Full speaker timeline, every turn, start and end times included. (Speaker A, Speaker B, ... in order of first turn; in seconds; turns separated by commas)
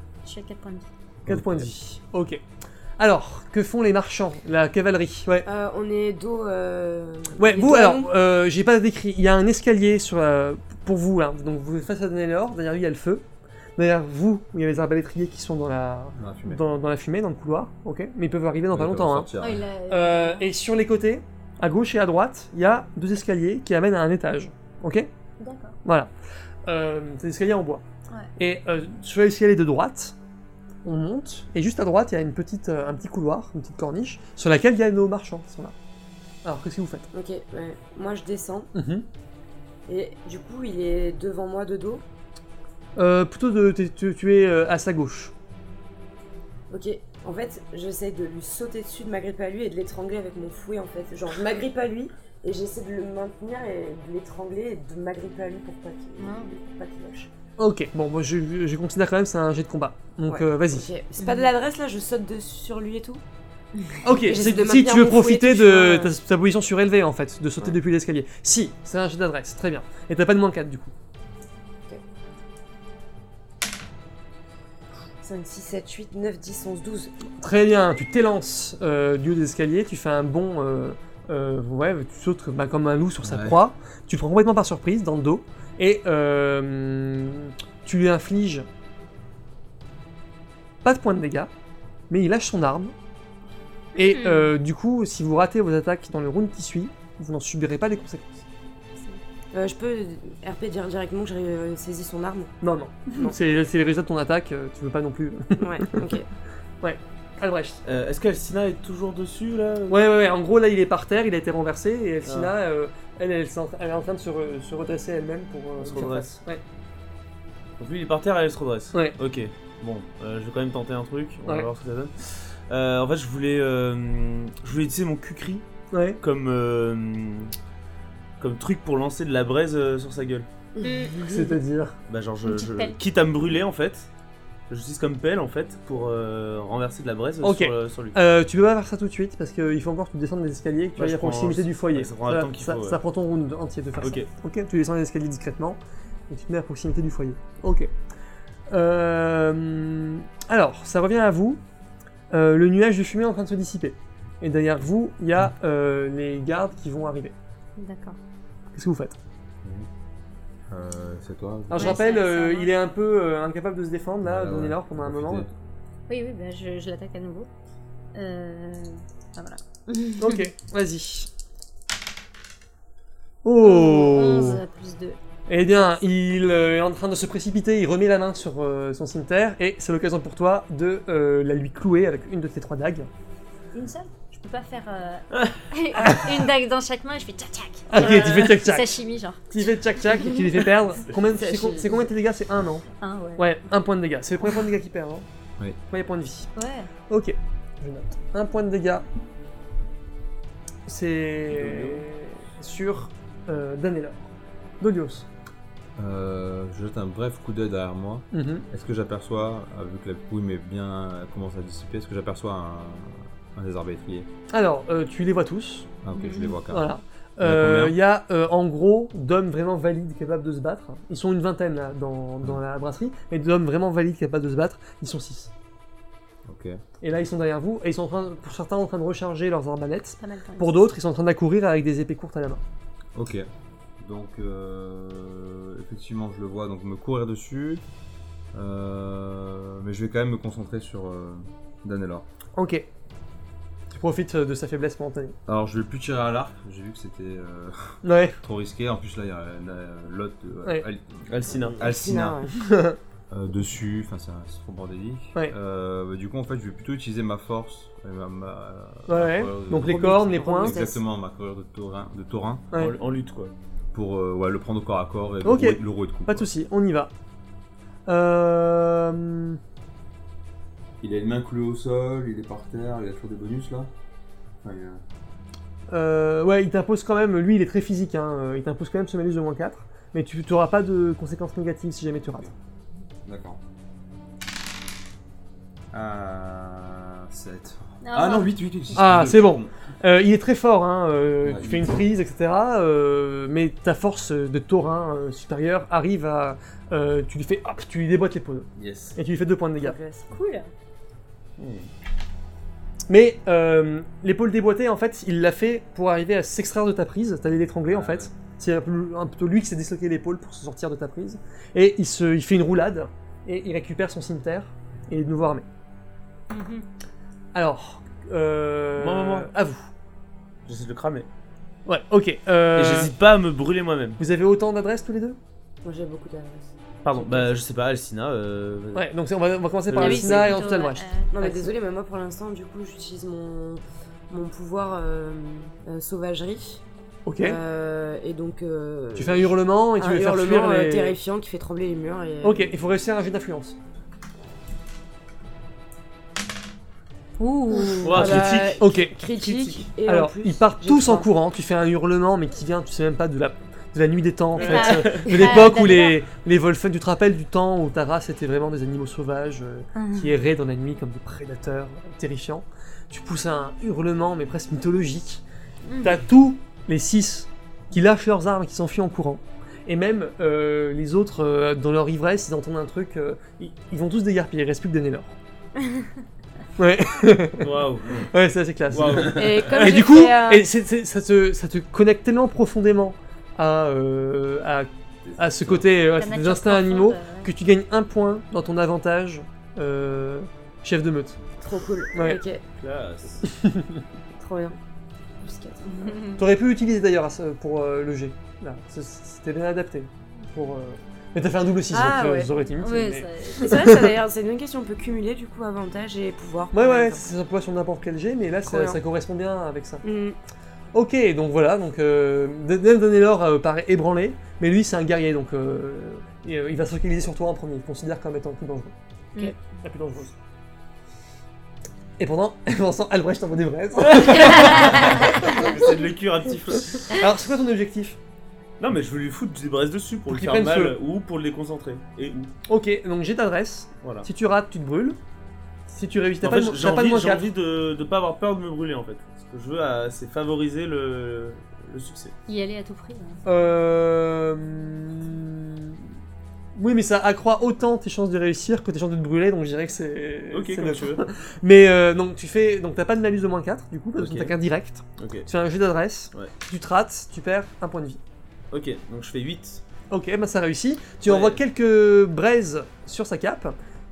Speaker A: 0.2-0.9, Speaker B: 1.2-1.7, Speaker C: 1.3-2.4, Speaker C: 3.0-5.5, Speaker D: 5.5-8.1, Speaker C: 7.4-13.2, Speaker C: 13.8-19.3, Speaker B: 16.1-16.6, Speaker B: 18.7-19.7, Speaker A: 19.4-20.5, Speaker C: 19.9-25.1, Speaker A: 25.4-25.8, Speaker C: 26.7-27.8, Speaker C: 28.4-30.2, Speaker C: 30.8-35.8, Speaker C: 36.4-37.1, Speaker D: 37.1-38.7, Speaker C: 38.7-39.1, Speaker D: 39.9-42.0, Speaker C: 43.0-45.3, Speaker D: 46.7-57.3, Speaker A: 56.2-56.5, Speaker C: 57.6-60.9, Speaker D: 60.3-63.2, Speaker A: 61.2-61.5, Speaker C: 64.0-70.9, Speaker D: 64.2-66.1, Speaker D: 75.2-77.1, Speaker C: 77.4-88.7, Speaker B: 83.2-83.6, Speaker C: 90.8-91.5, Speaker C: 92.1-92.9, Speaker C: 94.0-98.5, Speaker A: 94.1-94.5, Speaker D: 99.5-102.5, Speaker C: 102.6-106.1, Speaker D: 105.6-106.3, Speaker C: 106.8-107.8, Speaker E: 107.8-110.0, Speaker C: 109.9-116.6, Speaker E: 112.3-112.5, Speaker E: 115.8-116.4, Speaker E: 117.8-125.7, Speaker C: 125.9-126.2, Speaker E: 126.2-127.5, Speaker E: 128.4-130.5, Speaker D: 130.8-131.6, Speaker A: 130.8-131.2, Speaker C: 131.3-132.0, Speaker E: 132.1-134.1, Speaker A: 132.4-133.0, Speaker E: 134.7-138.2, Speaker C: 137.4-147.9, Speaker E: 141.0-143.0, Speaker E: 144.0-144.3, Speaker C: 148.7-151.6, Speaker C: 152.3-157.3, Speaker A: 157.8-158.2, Speaker C: 158.7-159.2, Speaker B: 160.7-162.0, Speaker C: 161.7-165.5, Speaker A: 161.7-162.7, Speaker B: 164.2-165.5, Speaker A: 166.1-167.5, Speaker A: 168.2-170.5, Speaker C: 170.2-171.3, Speaker C: 173.4-174.6, Speaker A: 173.6-175.2, Speaker C: 175.5-183.1, Speaker A: 183.7-189.4, Speaker C: 186.0-186.3, Speaker C: 187.9-188.9, Speaker E: 187.9-188.5, Speaker C: 189.5-192.9, Speaker A: 190.0-190.6, Speaker D: 191.2-192.1, Speaker A: 193.0-193.5, Speaker C: 193.4-195.3, Speaker C: 195.9-196.5, Speaker A: 196.6-196.9, Speaker C: 197.1-199.1, Speaker C: 200.9-204.3, Speaker E: 201.6-202.1, Speaker C: 204.8-205.3, Speaker B: 206.0-214.3, Speaker C: 208.3-208.7, Speaker C: 214.5-215.9, Speaker B: 216.0-216.9, Speaker A: 216.2-216.6, Speaker C: 216.7-225.5, Speaker B: 217.4-218.0, Speaker B: 226.5-226.8, Speaker C: 227.0-232.6, Speaker A: 230.2-230.8, Speaker B: 233.2-233.5, Speaker B: 234.0-237.8, Speaker B: 238.5-242.3, Speaker C: 242.6-242.9, Speaker C: 243.9-245.4, Speaker B: 245.5-252.5, Speaker C: 248.0-248.4, Speaker E: 251.3-251.8, Speaker D: 251.6-252.5, Speaker C: 252.5-253.0, Speaker B: 253.3-262.7, Speaker C: 259.1-260.8, Speaker D: 260.4-261.0, Speaker E: 262.7-263.5, Speaker B: 263.9-266.5, Speaker C: 265.4-267.1, Speaker C: 268.1-269.6, Speaker B: 271.0-273.9, Speaker B: 274.6-275.0, Speaker C: 275.9-282.5, Speaker B: 283.2-283.6, Speaker B: 285.9-289.7, Speaker A: 288.0-288.5, Speaker C: 288.9-300.0, Speaker B: 291.4-291.9, Speaker B: 298.8-299.2, Speaker D: 299.8-300.4, Speaker A: 300.3-300.7, Speaker E: 301.6-301.9, Speaker C: 303.1-315.7, Speaker B: 307.9-308.3, Speaker A: 316.5-316.9, Speaker C: 317.6-319.9, Speaker E: 319.0-319.5, Speaker E: 320.7-321.3, Speaker C: 321.9-323.1, Speaker E: 322.8-324.2, Speaker C: 324.2-325.4, Speaker D: 325.8-326.7, Speaker E: 327.0-329.1, Speaker C: 328.9-331.8, Speaker E: 329.9-330.6, Speaker A: 330.0-331.3, Speaker D: 331.3-336.8, Speaker C: 337.3-337.6, Speaker D: 337.4-342.8, Speaker C: 339.2-341.2, Speaker C: 342.4-343.8, Speaker A: 347.4-348.2, Speaker D: 347.7-351.3, Speaker E: 348.0-348.8, Speaker C: 348.1-365.4, Speaker E: 354.6-355.5, Speaker A: 354.6-356.2, Speaker A: 359.9-360.3, Speaker A: 365.9-366.2, Speaker C: 366.0-375.4, Speaker A: 375.8-376.1, Speaker C: 376.8-377.7, Speaker E: 377.6-378.3, Speaker C: 378.3-391.4, Speaker E: 378.9-379.9, Speaker D: 379.3-380.7, Speaker B: 385.2-385.9, Speaker A: 386.0-387.5, Speaker D: 391.6-392.6, Speaker C: 392.1-392.4, Speaker E: 392.8-393.4, Speaker C: 393.4-394.0, Speaker D: 394.4-394.8, Speaker D: 395.4-396.2, Speaker A: 395.8-396.4, Speaker C: 396.4-404.0, Speaker D: 401.9-402.5, Speaker A: 402.8-403.8, Speaker D: 403.6-407.3, Speaker C: 406.7-410.0, Speaker D: 408.7-409.0, Speaker D: 410.0-410.4, Speaker C: 410.9-418.9, Speaker C: 419.8-420.4, Speaker C: 422.2-425.8, Speaker E: 424.2-427.1, Speaker A: 424.4-425.7, Speaker C: 427.1-428.2, Speaker E: 428.8-432.5, Speaker C: 430.3-431.0, Speaker C: 432.7-435.2, Speaker E: 434.0-434.3, Speaker C: 435.9-437.5, Speaker E: 436.4-442.4, Speaker A: 442.5-443.4, Speaker C: 443.5-446.0, Speaker C: 446.8-458.2, Speaker E: 450.5-451.2, Speaker E: 454.2-454.6, Speaker E: 455.2-455.5, Speaker E: 458.7-459.8, Speaker C: 460.1-463.8, Speaker E: 461.2-461.6